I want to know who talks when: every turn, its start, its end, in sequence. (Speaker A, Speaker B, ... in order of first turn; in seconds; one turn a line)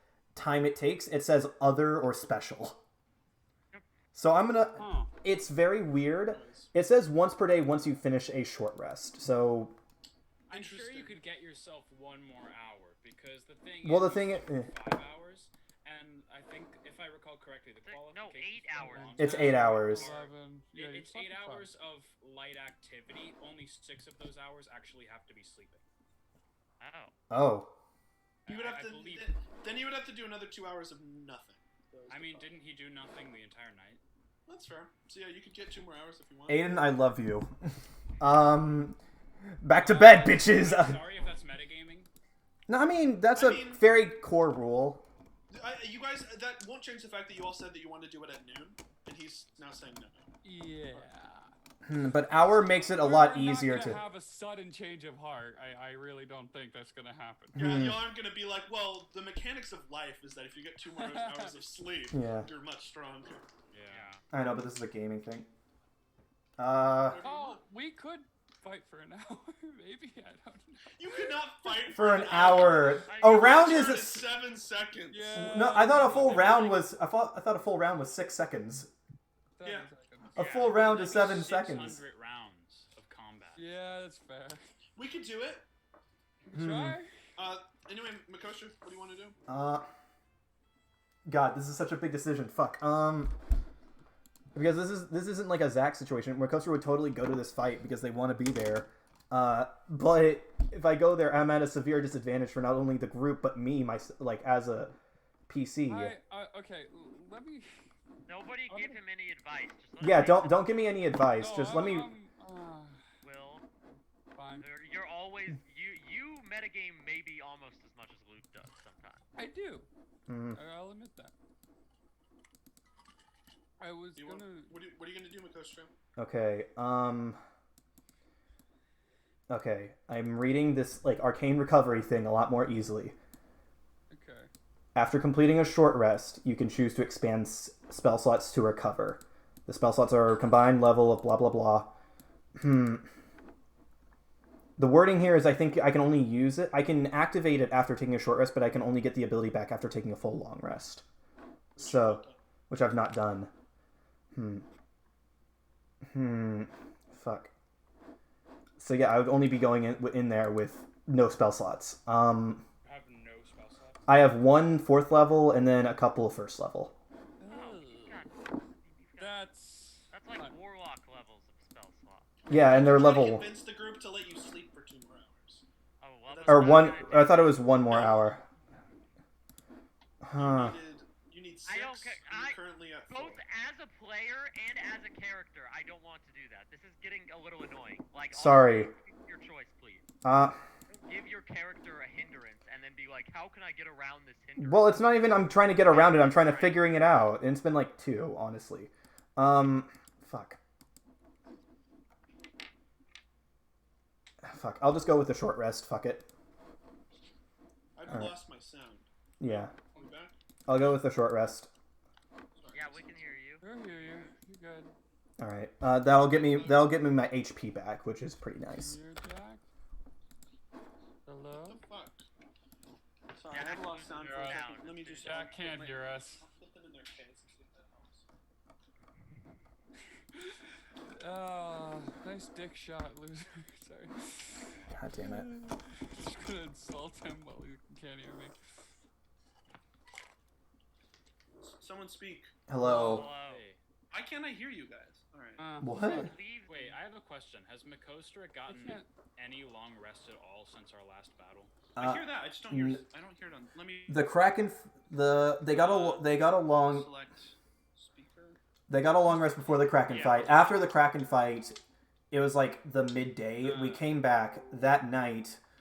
Speaker A: 0.3-2.8
Speaker A: 4.1-9.8
Speaker B: 4.8-5.1
Speaker C: 6.3-6.7
Speaker D: 10.5-25.8
Speaker C: 10.5-11.2
Speaker A: 13.8-14.7
Speaker E: 17.9-20.2
Speaker B: 18.9-21.7
Speaker A: 19.2-20.2
Speaker E: 26.8-27.1
Speaker A: 27.3-27.7
Speaker D: 28.4-29.3
Speaker C: 28.5-32.5
Speaker D: 32.1-34.0
Speaker C: 34.5-36.8
Speaker A: 36.5-39.0
Speaker A: 39.6-41.0
Speaker D: 39.8-42.1
Speaker A: 42.7-45.0
Speaker C: 43.3-43.9
Speaker C: 45.5-50.3
Speaker B: 50.4-51.5
Speaker A: 51.9-54.0
Speaker B: 52.9-57.6
Speaker A: 57.5-58.1
Speaker C: 57.5-63.5
Speaker B: 60.9-61.7
Speaker A: 62.1-62.5
Speaker D: 63.7-64.2
Speaker E: 63.9-64.2
Speaker A: 64.3-65.5
Speaker A: 66.6-67.2
Speaker C: 67.1-67.6
Speaker B: 67.2-71.5
Speaker C: 70.9-75.4
Speaker A: 71.9-74.3
Speaker E: 73.1-74.0
Speaker B: 75.1-76.8
Speaker A: 75.3-78.9
Speaker B: 79.6-80.6
Speaker A: 80.4-82.0
Speaker D: 80.4-83.6
Speaker B: 83.5-84.7
Speaker C: 85.0-85.7
Speaker B: 86.5-87.1
Speaker A: 86.5-87.0
Speaker C: 87.4-89.4
Speaker A: 89.5-89.9
Speaker A: 91.3-93.3
Speaker A: 94.5-105.0
Speaker A: 105.5-106.2
Speaker B: 105.8-107.9
Speaker E: 108.3-110.9
Speaker B: 108.7-109.0
Speaker A: 110.0-112.1
Speaker B: 111.3-113.0
Speaker E: 113.2-113.7
Speaker B: 114.3-114.7
Speaker E: 114.6-119.2
Speaker B: 119.3-119.9
Speaker A: 120.3-120.6
Speaker B: 120.5-121.3
Speaker B: 123.8-124.8
Speaker C: 124.2-125.9
Speaker A: 126.2-127.4
Speaker A: 129.5-133.2
Speaker B: 134.1-134.5
Speaker A: 134.9-141.9
Speaker A: 142.6-143.1
Speaker A: 144.8-151.0
Speaker C: 151.8-152.4
Speaker A: 151.8-153.5
Speaker A: 154.3-154.7
Speaker A: 156.1-157.5
Speaker A: 158.8-162.6
Speaker D: 162.8-164.0
Speaker A: 164.1-166.9
Speaker B: 167.4-168.2
Speaker E: 167.5-169.5
Speaker B: 169.2-170.6
Speaker E: 170.1-172.3
Speaker A: 172.5-173.5
Speaker C: 172.7-175.7
Speaker E: 176.0-177.7
Speaker C: 176.3-177.1
Speaker A: 176.5-178.4
Speaker C: 177.9-178.3
Speaker A: 180.2-180.8
Speaker C: 180.4-183.4
Speaker E: 181.7-190.0
Speaker A: 188.3-188.9
Speaker A: 190.2-190.6
Speaker E: 190.9-196.9
Speaker A: 194.6-200.6
Speaker A: 204.4-206.3
Speaker C: 207.9-210.3
Speaker A: 209.4-209.8
Speaker A: 210.7-211.7
Speaker C: 212.6-213.3
Speaker E: 212.7-213.7
Speaker B: 213.6-214.9
Speaker A: 215.4-219.0
Speaker C: 216.1-217.0
Speaker B: 218.7-219.6
Speaker B: 221.2-221.8
Speaker C: 221.7-222.2
Speaker C: 223.3-228.2
Speaker E: 223.5-225.5
Speaker D: 224.2-224.6
Speaker B: 225.2-226.4
Speaker B: 231.1-238.6
Speaker A: 234.9-235.5
Speaker C: 241.6-242.5
Speaker A: 242.7-243.3
Speaker E: 242.9-243.6
Speaker D: 243.0-243.8
Speaker C: 244.1-245.7
Speaker B: 245.6-246.3
Speaker A: 245.8-246.3
Speaker E: 246.0-247.0
Speaker D: 246.7-251.7
Speaker B: 248.7-249.1
Speaker A: 252.0-253.0
Speaker C: 252.0-254.3
Speaker A: 254.1-257.1
Speaker C: 255.7-258.6
Speaker A: 258.9-261.8
Speaker D: 260.1-260.8
Speaker A: 262.3-265.6
Speaker B: 263.6-264.1